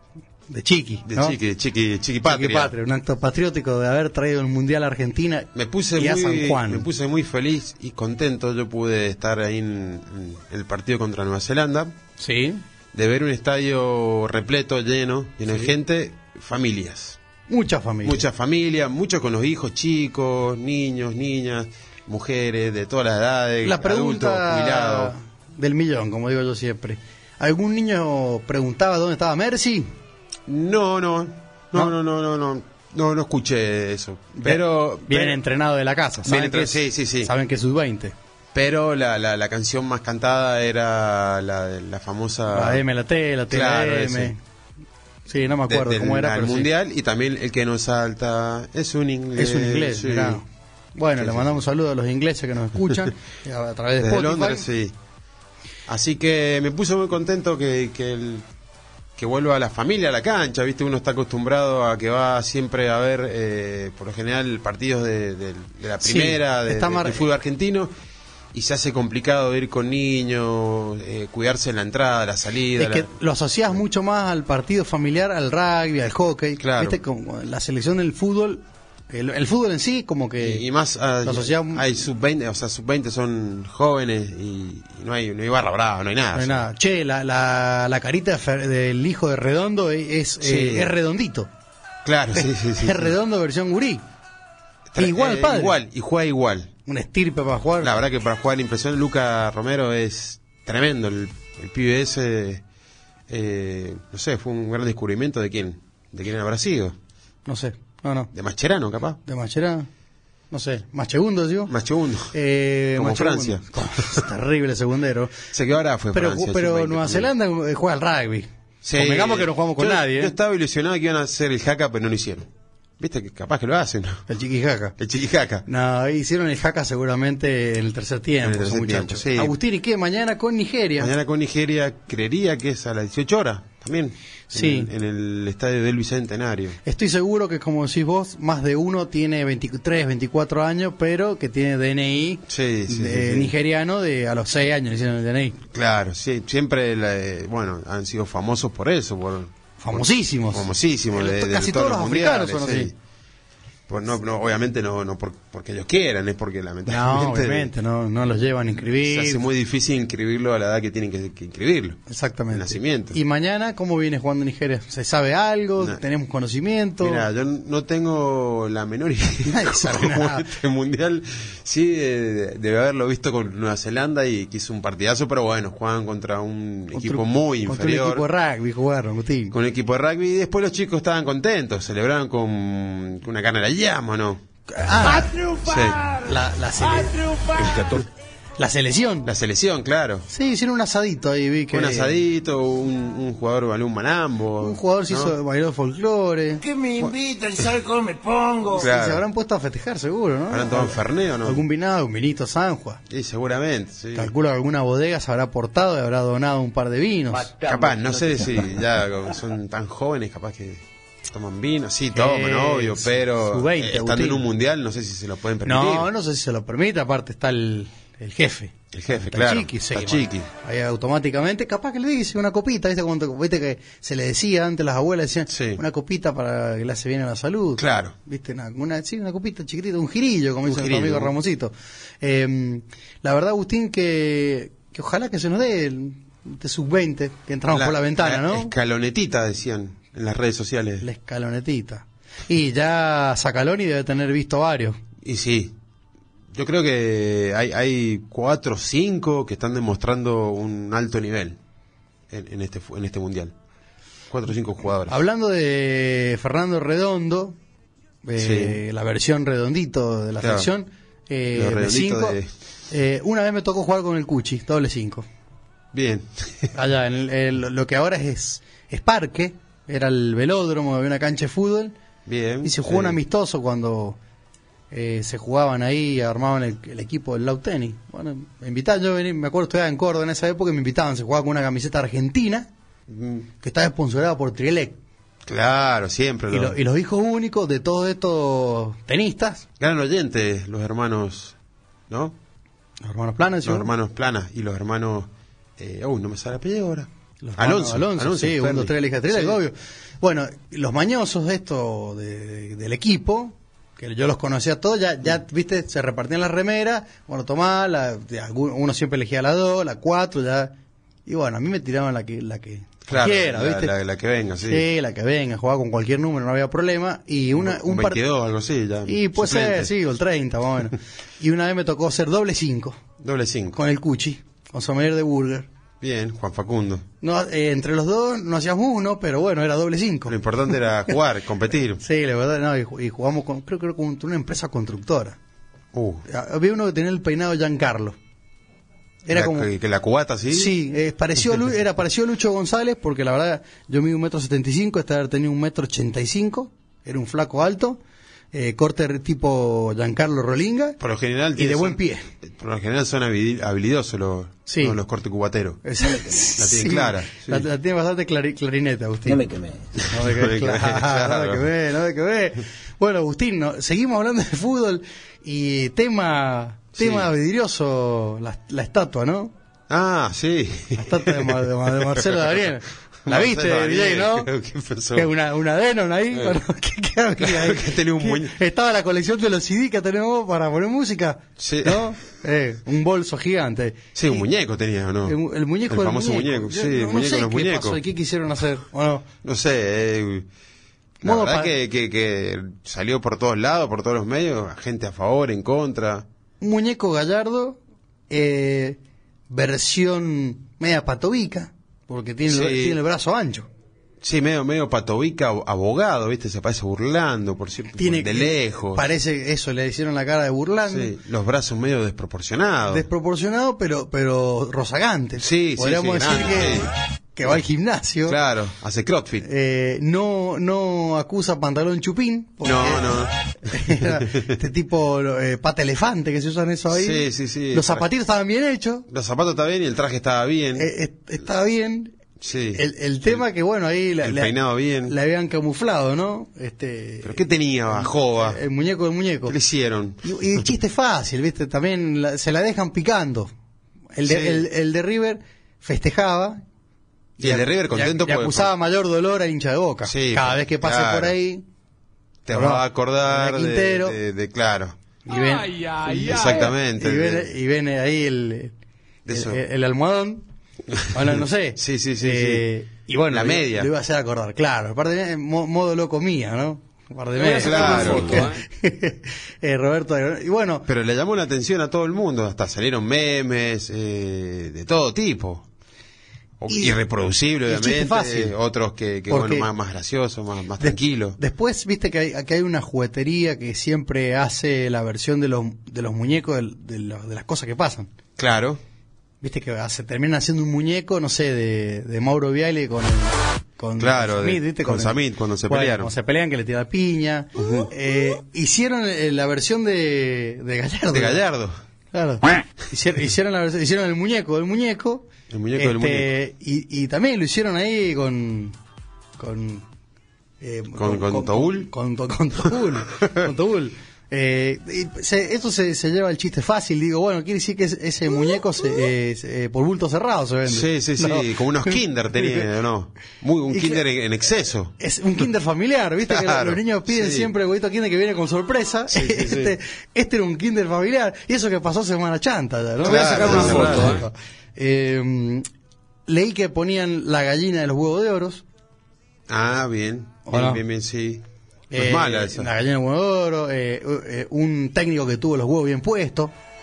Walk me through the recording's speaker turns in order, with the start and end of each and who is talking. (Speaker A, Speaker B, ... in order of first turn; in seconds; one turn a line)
Speaker A: 0.5-1.4
Speaker B: 1.0-2.7
Speaker A: 2.2-6.9
Speaker B: 5.5-11.9
Speaker A: 12.2-12.6
Speaker B: 12.9-17.2
Speaker A: 17.5-18.2
Speaker B: 18.0-25.1
Speaker A: 23.6-29.9
Speaker B: 30.5-35.4
Speaker A: 34.4-38.1
Speaker B: 36.2-37.3
Speaker B: 38.5-42.8
Speaker A: 42.5-44.4
Speaker B: 43.5-44.3
Speaker A: 45.3-46.7
Speaker B: 45.7-50.4
Speaker A: 49.3-50.4
Speaker A: 51.0-54.7
Speaker B: 51.1-51.6
Speaker B: 54.0-54.9
Speaker B: 55.9-58.5
Speaker B: 59.2-67.9
Speaker A: 66.0-67.2
Speaker B: 68.5-73.1
Speaker A: 72.8-80.6
Speaker B: 76.6-77.0
Speaker B: 80.4-86.7
Speaker A: 81.2-81.8
Speaker A: 86.3-91.5
Speaker B: 90.4-90.9
Speaker B: 92.0-93.1
Speaker A: 92.3-94.0
Speaker B: 94.9-96.7
Speaker A: 95.0-95.8
Speaker A: 96.8-97.9
Speaker B: 97.8-102.6
Speaker B: 103.3-107.0
Speaker A: 107.5-108.3
Speaker B: 108.3-109.2
Speaker A: 109.2-109.9
Speaker A: 110.5-111.7
Speaker B: 111.7-112.3
Speaker A: 112.3-115.3
Speaker B: 113.0-114.2
Speaker B: 115.5-117.3
Speaker A: 116.1-120.3
Speaker B: 118.8-124.2
Speaker A: 124.3-125.0
Speaker B: 125.0-125.6
Speaker A: 125.7-131.1
Speaker B: 128.4-129.5
Speaker B: 131.0-136.8
Speaker A: 134.5-134.9
Speaker A: 136.8-145.6
Speaker B: 142.5-143.5
Speaker B: 145.7-152.9
Speaker A: 149.8-152.9
Speaker B: 153.9-157.7
Speaker A: 156.9-159.4
Speaker B: 158.9-162.0
Speaker A: 162.1-167.2
Speaker B: 162.5-163.2
Speaker B: 167.0-178.2
Speaker A: 169.4-170.5
Speaker A: 176.9-179.5
Speaker B: 179.5-184.4
Speaker A: 184.7-185.4
Speaker C: 185.1-186.3
Speaker B: 185.6-186.0
Speaker A: 186.2-187.3
Speaker C: 186.8-188.0
Speaker B: 187.6-188.0
Speaker A: 188.6-189.3
Speaker B: 189.2-190.3
Speaker A: 190.3-192.2
Speaker B: 191.7-195.3
Speaker A: 194.6-196.6
Speaker C: 196.6-198.9
Speaker B: 197.0-197.7
Speaker B: 198.7-199.2
Speaker A: 198.8-203.0
Speaker B: 200.5-201.6
Speaker B: 203.1-204.3
Speaker A: 204.1-207.5
Speaker C: 207.3-208.9
Speaker B: 207.6-216.1
Speaker A: 212.1-214.5
Speaker A: 215.6-238.7
Speaker B: 218.9-220.5
Speaker B: 225.5-225.8
Speaker B: 227.8-228.1
Speaker B: 230.6-231.3
Speaker B: 237.7-241.1
Speaker A: 241.0-245.0
Speaker B: 245.2-245.8
Speaker B: 246.5-251.6
Speaker B: 252.3-253.5
Speaker B: 254.3-255.2
Speaker A: 255.1-257.6
Speaker A: 258.2-262.4
Speaker B: 258.4-258.8
Speaker B: 260.4-260.7
Speaker B: 261.5-262.5
Speaker A: 262.9-265.2
Speaker B: 265.9-266.7
Speaker A: 266.7-271.9
Speaker B: 272.2-273.2
Speaker A: 272.6-274.2
Speaker A: 274.9-282.7
Speaker B: 283.1-283.5
Speaker A: 283.6-285.0
Speaker B: 285.4-286.8
Speaker A: 286.5-289.6
Speaker B: 289.8-291.6
Speaker B: 292.1-292.4
Speaker A: 293.0-293.9
Speaker B: 293.6-299.6
Speaker A: 297.4-313.9
Speaker B: 313.1-314.9
Speaker A: 314.6-318.2
Speaker B: 317.6-319.9
Speaker A: 319.1-323.0
Speaker B: 323.2-323.8
Speaker A: 323.7-325.7
Speaker B: 326.0-327.0
Speaker A: 327.2-330.4
Speaker B: 330.3-332.0
Speaker A: 332.0-335.4
Speaker B: 335.9-336.2
Speaker A: 336.3-338.1
Speaker A: 339.2-339.7
Speaker B: 339.3-340.7
Speaker A: 340.5-348.0
Speaker A: 348.5-351.0
Speaker B: 351.0-355.8
Speaker A: 351.6-352.3
Speaker A: 354.7-355.0
Speaker A: 355.8-369.5
Speaker B: 356.3-357.6
Speaker C: 359.4-359.7
Speaker B: 360.0-361.7
Speaker B: 366.9-367.3
Speaker B: 369.9-372.6
Speaker A: 370.9-374.5
Speaker B: 373.2-375.3
Speaker A: 375.1-384.4
Speaker B: 376.3-376.6
Speaker B: 377.4-378.5
Speaker B: 381.6-382.1
Speaker B: 384.1-385.4
Speaker A: 385.2-389.2
Speaker B: 385.9-388.0
Speaker B: 389.4-390.5
Speaker A: 391.2-391.7
Speaker B: 391.2-396.2
Speaker A: 396.6-397.8
Speaker A: 398.3-399.0
Speaker A: 399.5-403.7
Speaker B: 402.5-403.0
Speaker B: 404.2-409.1
Speaker A: 408.0-411.1
Speaker B: 410.9-413.1
Speaker A: 412.9-418.4
Speaker B: 415.4-416.9
Speaker B: 418.2-419.5
Speaker A: 419.4-429.1
Speaker B: 422.6-424.6
Speaker B: 426.9-428.1
Speaker B: 429.1-430.9
Speaker A: 430.8-432.2
Speaker B: 432.4-433.4
Speaker A: 432.7-434.5
Speaker B: 434.2-435.1
Speaker A: 435.1-439.6
Speaker B: 437.2-438.6
Speaker B: 439.5-440.7
Speaker A: 440.2-443.5
Speaker A: 444.1-446.6
Speaker B: 444.2-444.7
Speaker A: 447.4-451.6
Speaker B: 447.4-448.7
Speaker B: 450.1-451.3
Speaker B: 452.4-454.9
Speaker A: 452.5-454.2
Speaker A: 455.2-458.7
Speaker B: 456.1-457.5
Speaker B: 459.2-459.6
Speaker A: 459.3-460.4
Speaker B: 460.9-462.6
Speaker A: 461.1-470.9
Speaker B: 463.3-463.9
Speaker C: 467.4-468.4
Speaker B: 467.5-468.6
Speaker B: 470.9-475.6
Speaker B: 476.6-481.4
Speaker A: 476.7-477.0
Speaker A: 477.6-478.6
Speaker A: 479.3-479.7
Speaker A: 480.8-488.1
Speaker B: 488.4-488.8
Speaker A: 489.4-501.4
Speaker B: 494.0-496.1
Speaker B: 497.6-497.9
Speaker B: 501.1-501.7
Speaker A: 502.1-508.8
Speaker B: 505.5-506.3
Speaker A: 509.4-509.9
Speaker A: 510.6-522.6
Speaker B: 510.9-511.9
Speaker B: 513.2-513.5
Speaker B: 520.6-524.9
Speaker A: 523.7-524.0
Speaker A: 525.0-535.6
Speaker B: 526.2-527.5
Speaker B: 529.1-529.8
Speaker B: 533.0-534.3
Speaker C: 533.2-534.1
Speaker A: 536.3-538.6
Speaker B: 539.5-542.7
Speaker A: 540.5-540.8
Speaker A: 541.9-546.5